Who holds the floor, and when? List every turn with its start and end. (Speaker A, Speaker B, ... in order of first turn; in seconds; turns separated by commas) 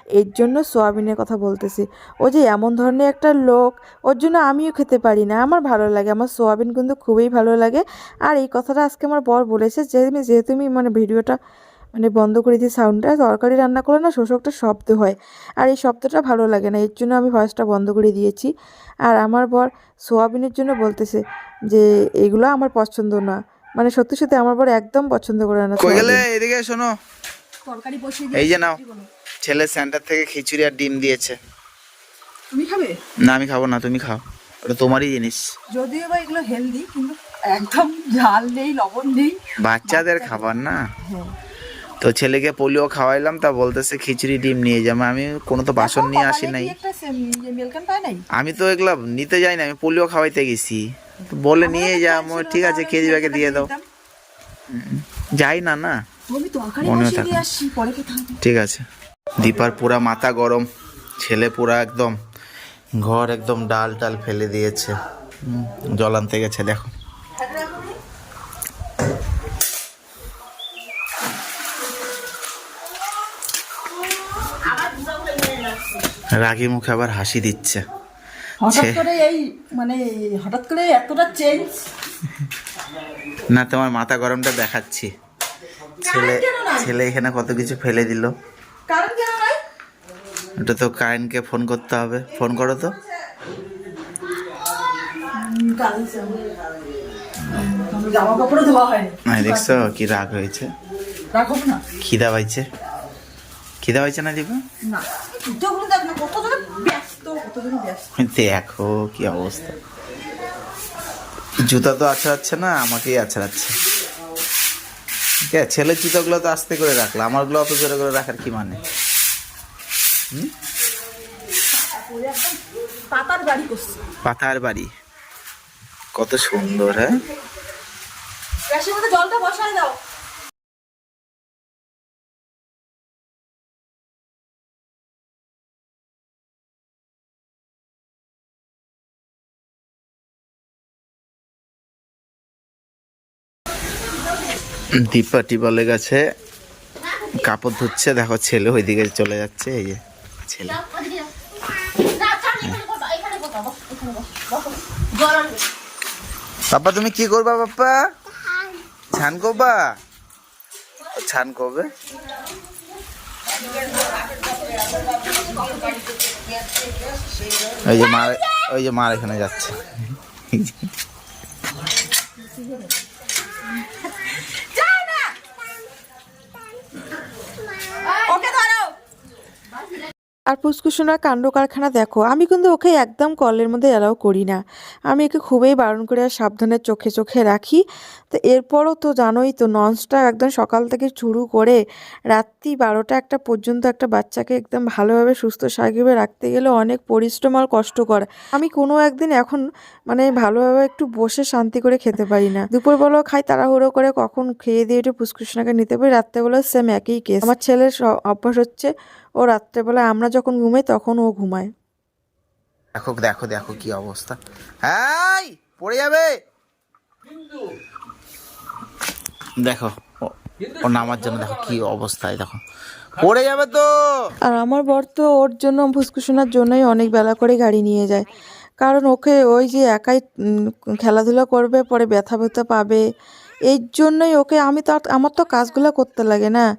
Speaker A: 0.1-11.4, Speaker A: 11.9-18.5, Speaker A: 19.0-26.2, Speaker B: 25.8-26.9, Speaker C: 27.6-29.1, Speaker B: 28.3-28.8, Speaker B: 29.4-31.4, Speaker C: 32.5-33.0, Speaker B: 33.3-35.5, Speaker A: 35.7-36.0, Speaker C: 35.8-40.4, Speaker A: 36.6-37.1, Speaker B: 39.6-40.8, Speaker B: 42.0-46.7, Speaker C: 45.8-48.2, Speaker A: 45.9-48.1, Speaker B: 48.3-50.8, Speaker B: 51.4-53.7, Speaker C: 51.6-53.6, Speaker A: 53.5-53.8, Speaker B: 54.7-55.9, Speaker C: 56.3-58.4, Speaker B: 56.8-57.4, Speaker B: 58.4-58.8, Speaker B: 59.4-60.6, Speaker B: 61.2-62.1, Speaker B: 63.0-64.9, Speaker B: 65.5-66.9, Speaker B: 76.4-77.8, Speaker C: 78.6-81.8, Speaker B: 78.7-79.0, Speaker B: 83.5-85.1, Speaker B: 86.0-88.3, Speaker C: 86.1-86.8, Speaker C: 88.9-89.6, Speaker B: 90.6-92.9, Speaker C: 95.3-96.4, Speaker C: 97.6-99.8, Speaker B: 99.2-100.7, Speaker C: 101.3-101.8, Speaker B: 102.0-102.6, Speaker B: 103.8-104.6, Speaker C: 104.8-108.1, Speaker B: 108.2-109.7, Speaker B: 111.7-113.7, Speaker B: 115.5-118.8, Speaker C: 121.7-122.6, Speaker C: 123.1-124.0, Speaker B: 124.2-124.9, Speaker B: 126.2-127.1, Speaker C: 128.7-130.0, Speaker B: 145.0-146.2, Speaker B: 147.3-150.8, Speaker C: 152.0-155.6, Speaker B: 156.7-158.0, Speaker B: 159.1-159.8, Speaker B: 161.1-161.9, Speaker C: 164.2-166.0, Speaker B: 167.8-169.8, Speaker B: 170.5-170.9, Speaker C: 174.2-175.3, Speaker C: 178.1-178.9, Speaker A: 180.5-191.8, Speaker A: 192.3-211.7, Speaker B: 212.9-216.3, Speaker B: 219.6-222.6, Speaker B: 223.2-224.0, Speaker A: 224.4-228.3, Speaker A: 228.8-233.0, Speaker A: 233.7-236.6